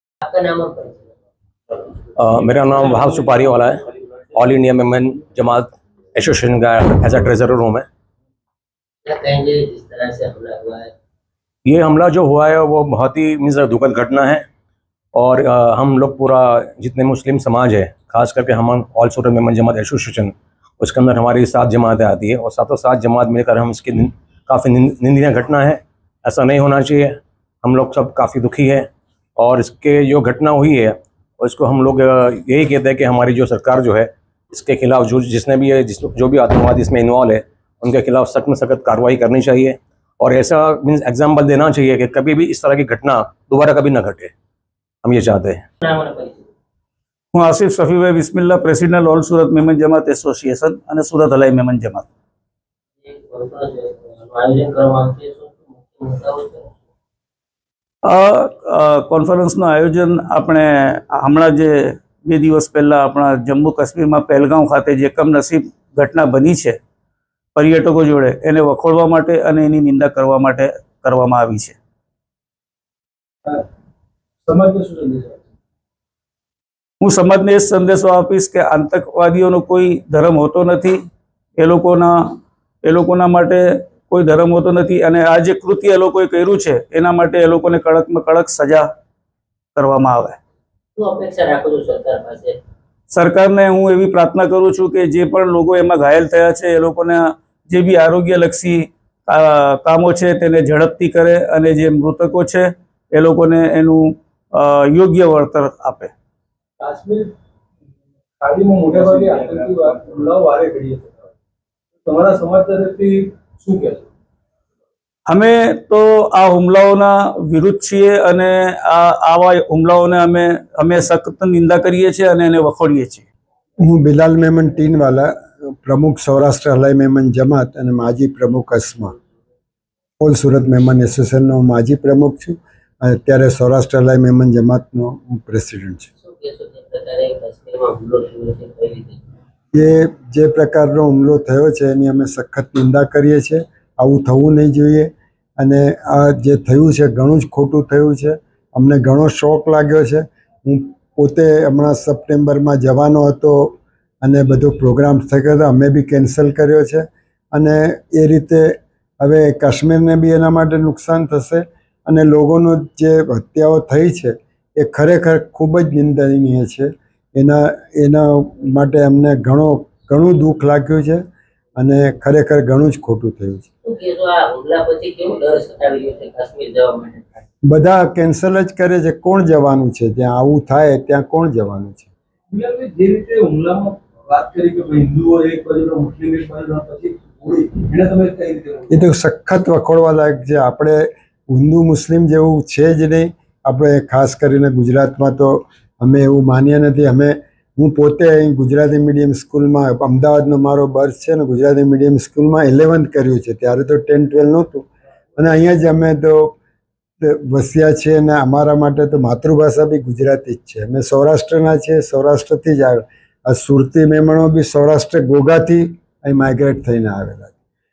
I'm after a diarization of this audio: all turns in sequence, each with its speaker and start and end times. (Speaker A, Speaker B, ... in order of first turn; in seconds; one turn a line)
Speaker A: 0.2-1.1
Speaker B: 2.2-7.8
Speaker A: 9.1-10.9
Speaker B: 11.7-14.4
Speaker B: 15.2-28.9
Speaker B: 29.4-44.3
Speaker B: 45.0-45.6
Speaker A: 45.8-46.4
Speaker C: 47.3-52.0
Speaker A: 53.0-56.8
Speaker C: 58.1-66.8
Speaker C: 67.6-71.7
Speaker D: 74.4-75.4
Speaker C: 77.0-81.0
Speaker C: 81.6-82.2
Speaker C: 82.8-88.8
Speaker C: 89.8-90.3
Speaker A: 91.0-92.6
Speaker C: 93.1-104.1
Speaker C: 104.6-106.1
Speaker D: 106.8-107.3
Speaker D: 108.4-111.2
Speaker C: 108.9-109.7
Speaker D: 112.0-114.0
Speaker C: 115.4-123.2
Speaker E: 123.8-129.1
Speaker E: 130.2-136.1
Speaker A: 136.2-139.2
Speaker E: 139.7-171.2
Speaker E: 171.8-173.7
Speaker A: 173.8-177.4
Speaker E: 177.7-182.1
Speaker D: 182.5-188.9
Speaker E: 188.9-206.6
Speaker E: 207.2-217.5